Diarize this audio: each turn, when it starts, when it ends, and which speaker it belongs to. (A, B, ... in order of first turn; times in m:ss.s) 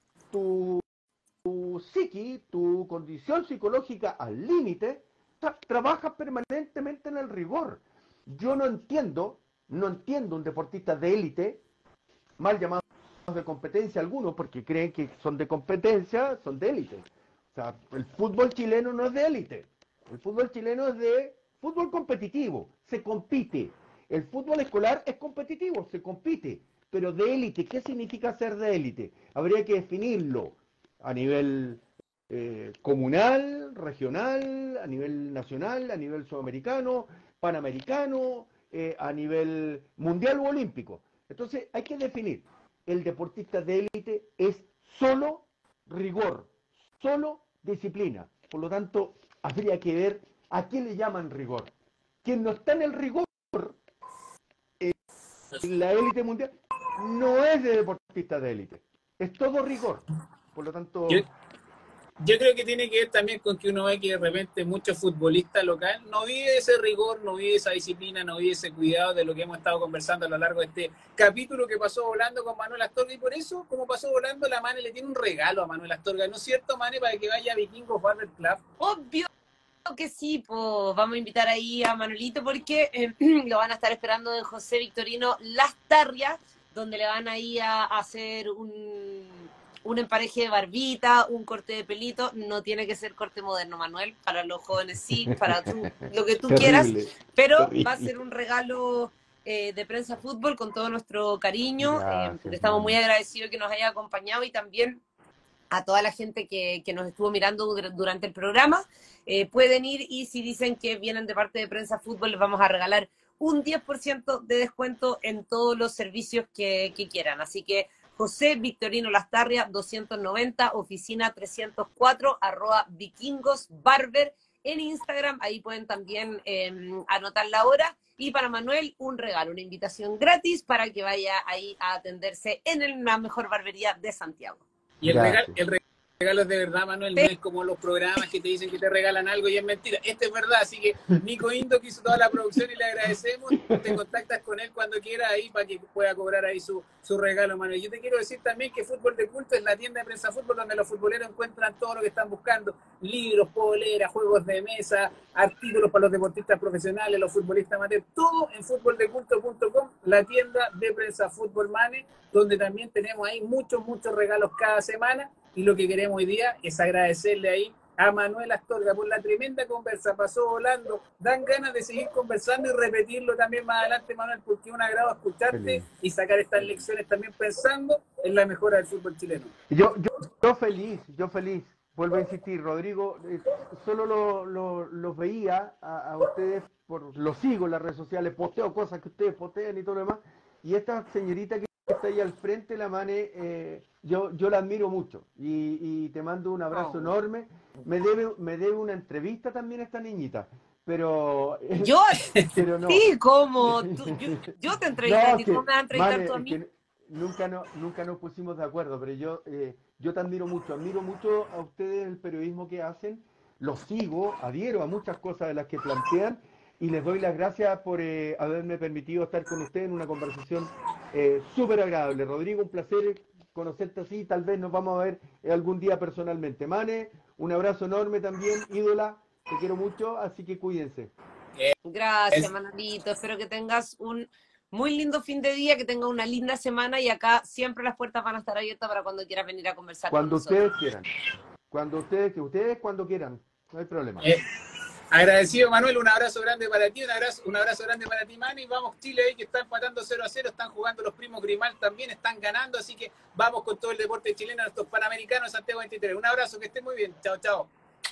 0:00.3-0:00.8 A
0:01.4-0:11.6 A
0:12.4-0:51.7 A
0:52.2-0:53.8 A
0:55.5-1:01.3 A
1:02.2-1:18.6 B
1:18.8-1:19.3 C
1:19.9-1:45.0 C
1:35.2-1:38.1 A
1:41.8-1:43.0 A
1:45.7-2:14.6 C
2:15.0-2:59.5 B
2:15.0-2:15.6 A
2:23.6-2:24.0 A
2:55.5-2:55.9 A
2:59.7-3:21.9 A
3:16.8-3:17.1 C
3:21.8-3:22.2 C
3:22.5-3:23.0 A
3:22.9-3:26.6 C
3:23.6-3:24.5 A
3:25.0-3:51.1 A
3:51.8-4:00.6 C
4:00.1-4:01.1 A
4:01.7-4:04.3 A
4:05.1-4:17.7 B